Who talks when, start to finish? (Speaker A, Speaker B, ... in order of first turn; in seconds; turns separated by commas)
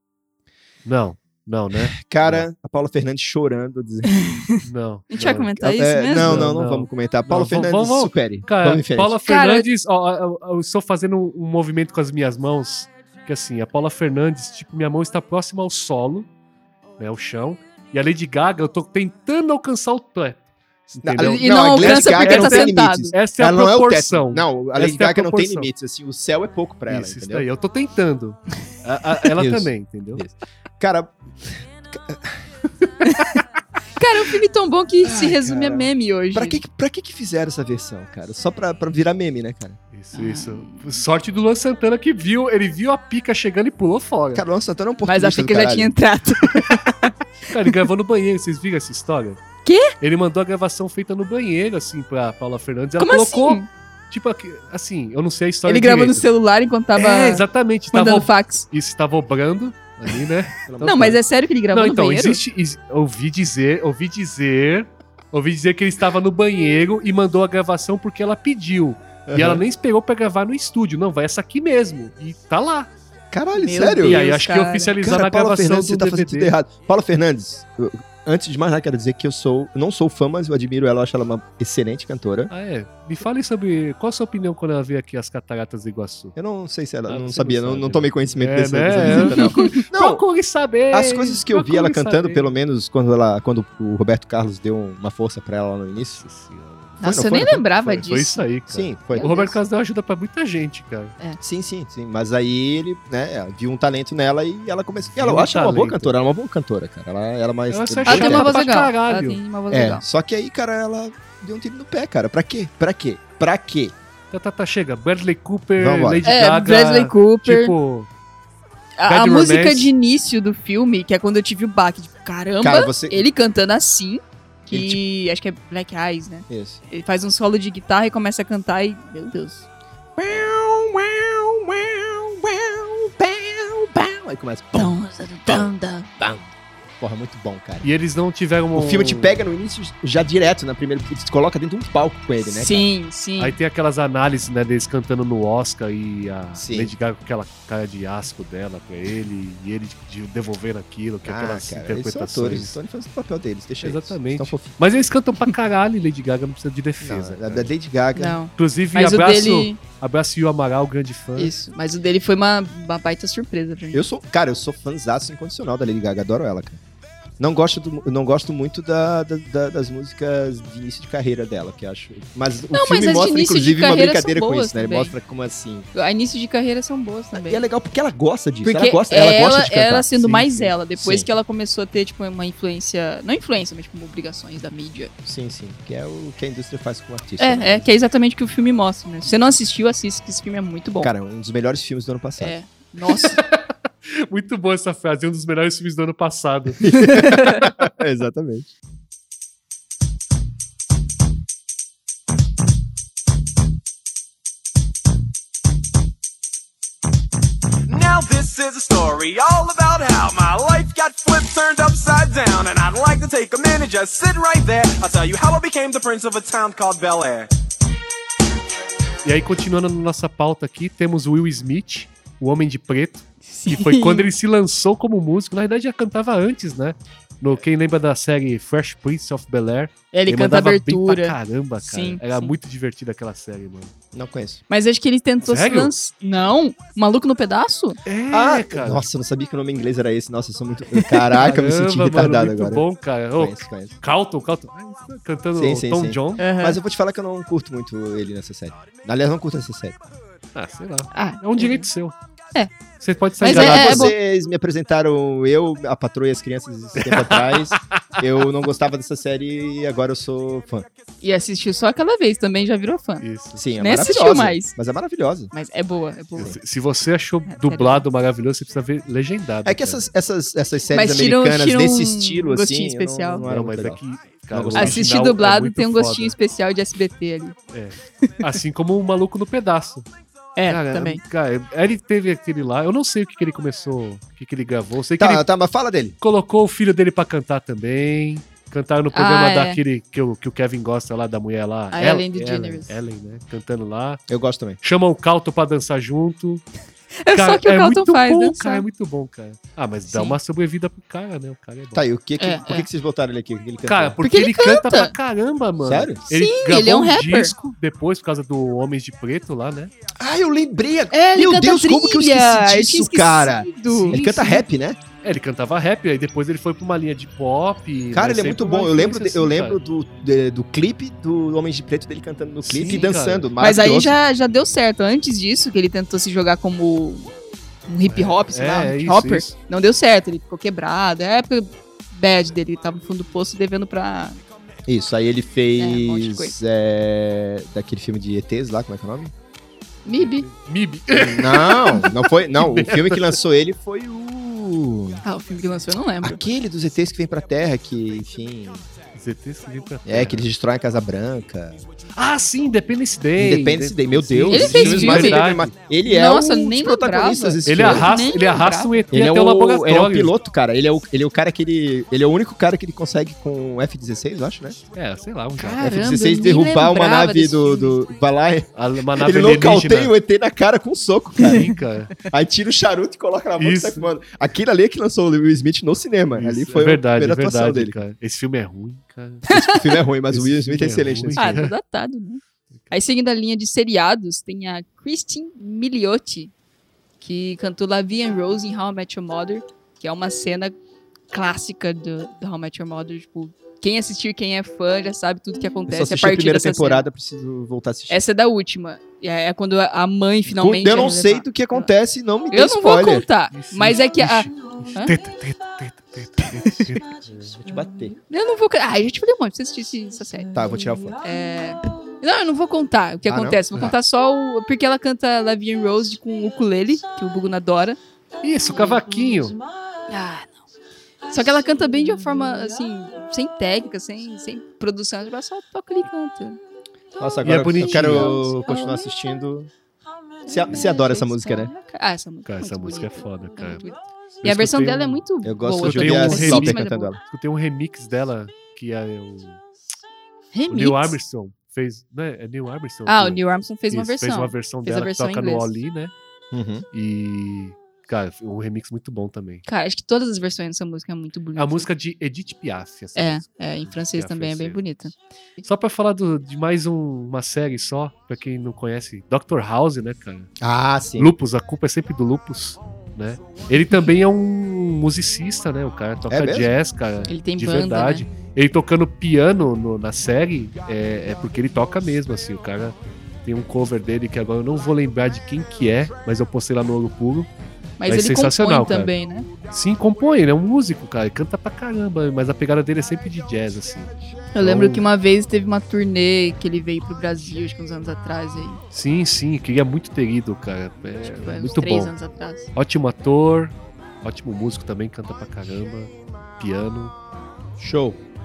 Speaker A: 0.8-2.4, Speaker B: 1.7-4.3, Speaker C: 4.1-6.4, Speaker A: 4.6-5.5, Speaker B: 5.6-9.2, Speaker A: 6.1-16.3, Speaker C: 9.2-9.7, Speaker A: 17.0-25.7, Speaker B: 21.0-27.5, Speaker C: 21.2-23.1, Speaker A: 26.9-30.3, Speaker B: 29.3-32.5, Speaker C: 33.0-33.4, Speaker C: 34.0-36.6, Speaker B: 35.0-39.8, Speaker A: 39.9-44.4, Speaker C: 40.1-41.0, Speaker B: 44.3-45.9, Speaker C: 45.0-47.1, Speaker A: 47.4-49.4, Speaker C: 49.6-49.9, Speaker A: 50.0-56.3, Speaker C: 53.0-53.7, Speaker C: 55.6-58.6, Speaker A: 57.0-61.2, Speaker B: 60.6-61.1, Speaker C: 60.8-62.4, Speaker A: 61.7-72.9, Speaker B: 69.2-69.6, Speaker B: 73.3-74.2, Speaker C: 73.5-74.9, Speaker A: 74.0-76.5, Speaker B: 75.0-82.5, Speaker A: 82.5-86.3, Speaker B: 86.3-90.2, Speaker A: 87.1-92.5, Speaker C: 89.0-89.8, Speaker B: 90.9-96.2, Speaker A: 96.2-101.2, Speaker C: 97.0-98.4, Speaker B: 97.0-97.6, Speaker B: 98.7-99.4, Speaker C: 99.2-99.5, Speaker B: 101.4-108.6, Speaker A: 105.2-106.1, Speaker A: 107.7-109.4, Speaker C: 108.0-110.0, Speaker B: 109.7-113.9, Speaker A: 114.3-118.1, Speaker B: 115.8-116.2, Speaker C: 116.2-117.7, Speaker C: 119.0-129.7, Speaker A: 119.0-119.9, Speaker B: 122.6-123.3, Speaker B: 124.7-125.0, Speaker B: 126.5-126.8, Speaker B: 130.2-136.5, Speaker C: 134.8-136.1, Speaker B: 137.0-137.9, Speaker A: 137.8-139.4, Speaker B: 138.7-142.9, Speaker C: 142.5-143.5, Speaker A: 143.4-152.8, Speaker B: 146.6-146.9, Speaker B: 151.2-154.8, Speaker A: 153.8-157.7, Speaker B: 157.0-158.4, Speaker C: 158.2-159.8, Speaker A: 158.5-161.5, Speaker C: 161.3-164.0, Speaker B: 163.9-166.8, Speaker B: 167.4-175.9, Speaker C: 172.7-175.1, Speaker C: 175.9-177.6, Speaker B: 177.3-181.3, Speaker C: 178.6-185.1, Speaker B: 185.2-187.9, Speaker C: 187.4-191.1, Speaker B: 191.0-192.5, Speaker C: 192.4-193.4, Speaker A: 193.1-196.9, Speaker B: 196.8-198.7, Speaker C: 196.9-197.7, Speaker D: 207.9-217.5, Speaker A: 219.2-233.9, Speaker C: 223.5-224.3, Speaker C: 230.1-232.5, Speaker B: 234.1-234.6, Speaker C: 234.7-238.0, Speaker A: 235.4-235.9, Speaker A: 238.1-239.0, Speaker B: 238.3-242.8, Speaker A: 241.3-246.4, Speaker B: 243.4-243.9, Speaker B: 245.5-250.0, Speaker C: 246.4-246.8, Speaker A: 250.5-252.1, Speaker C: 251.1-251.9, Speaker A: 253.0-254.1, Speaker C: 253.4-254.1, Speaker B: 253.4-260.9, Speaker A: 256.9-258.2, Speaker C: 261.2-263.2, Speaker A: 263.2-263.6, Speaker B: 263.6-265.5, Speaker C: 263.8-264.7, Speaker C: 265.5-266.6, Speaker A: 266.4-270.0, Speaker C: 267.5-268.0, Speaker B: 269.6-275.1, Speaker C: 270.9-273.4, Speaker A: 273.4-276.3, Speaker C: 274.7-277.6, Speaker A: 277.7-280.1, Speaker C: 280.6-281.2, Speaker A: 280.7-285.4, Speaker B: 285.2-286.1, Speaker A: 286.2-294.2, Speaker C: 289.1-289.8, Speaker C: 291.9-292.9, Speaker B: 294.3-294.8, Speaker A: 294.8-296.6, Speaker C: 297.2-298.8, Speaker A: 297.3-302.0, Speaker C: 300.1-300.4, Speaker B: 301.9-304.2, Speaker C: 302.4-302.9, Speaker A: 303.8-309.9, Speaker C: 304.2-305.1, Speaker B: 305.8-306.2, Speaker C: 306.3-307.5, Speaker B: 310.2-315.0, Speaker C: 311.1-314.6, Speaker A: 313.9-314.2, Speaker A: 315.2-319.8, Speaker B: 318.1-324.2, Speaker A: 322.6-323.5, Speaker C: 323.6-327.3, Speaker C: 327.9-334.4, Speaker A: 328.1-329.5, Speaker B: 334.9-339.3, Speaker C: 335.8-336.5, Speaker C: 340.0-340.5, Speaker A: 340.1-343.4, Speaker B: 341.1-345.2, Speaker C: 345.2-346.4, Speaker B: 346.2-348.9, Speaker A: 349.1-350.4, Speaker B: 350.0-351.8, Speaker A: 352.1-355.7, Speaker B: 353.4-358.1, Speaker C: 354.5-355.4, Speaker C: 356.0-359.0, Speaker A: 357.6-360.3, Speaker B: 359.1-364.8, Speaker A: 364.9-366.0, Speaker C: 365.6-368.0, Speaker B: 365.8-371.7, Speaker A: 368.7-370.1, Speaker A: 371.4-372.1, Speaker B: 372.2-378.0, Speaker A: 373.6-374.1, Speaker A: 376.4-379.5, Speaker C: 379.5-379.9, Speaker B: 379.5-381.6, Speaker A: 380.3-381.7, Speaker C: 381.4-386.5, Speaker C: 387.2-390.8, Speaker C: 391.3-397.1, Speaker B: 395.9-398.2, Speaker C: 398.1-401.9, Speaker B: 400.5-403.2, Speaker C: 402.5-405.1, Speaker A: 403.5-407.4, Speaker B: 407.3-408.2, Speaker C: 408.3-410.5, Speaker B: 410.5-411.2, Speaker C: 411.2-418.0, Speaker B: 413.3-413.9, Speaker A: 418.4-419.6, Speaker C: 418.7-419.0, Speaker C: 420.1-420.6, Speaker C: 421.3-426.6, Speaker B: 427.2-429.7, Speaker A: 427.4-428.5, Speaker C: 428.1-429.0, Speaker B: 430.4-431.7, Speaker C: 430.4-437.1, Speaker A: 432.4-433.8, Speaker A: 434.4-435.2, Speaker B: 435.4-437.2, Speaker A: 435.8-439.6, Speaker C: 440.5-441.2, Speaker A: 440.7-446.1, Speaker C: 443.1-445.7, Speaker B: 446.5-446.8, Speaker A: 446.9-449.6, Speaker C: 449.6-451.9, Speaker A: 451.6-454.9, Speaker C: 453.1-455.1, Speaker A: 455.6-460.5, Speaker B: 460.6-461.3, Speaker A: 461.2-477.5, Speaker B: 466.3-466.7, Speaker C: 467.3-468.2, Speaker C: 478.0-479.5, Speaker A: 478.1-479.1, Speaker A: 479.7-485.0, Speaker C: 484.5-488.8, Speaker A: 488.9-492.1, Speaker C: 491.2-492.7, Speaker A: 492.7-497.1, Speaker B: 497.8-498.2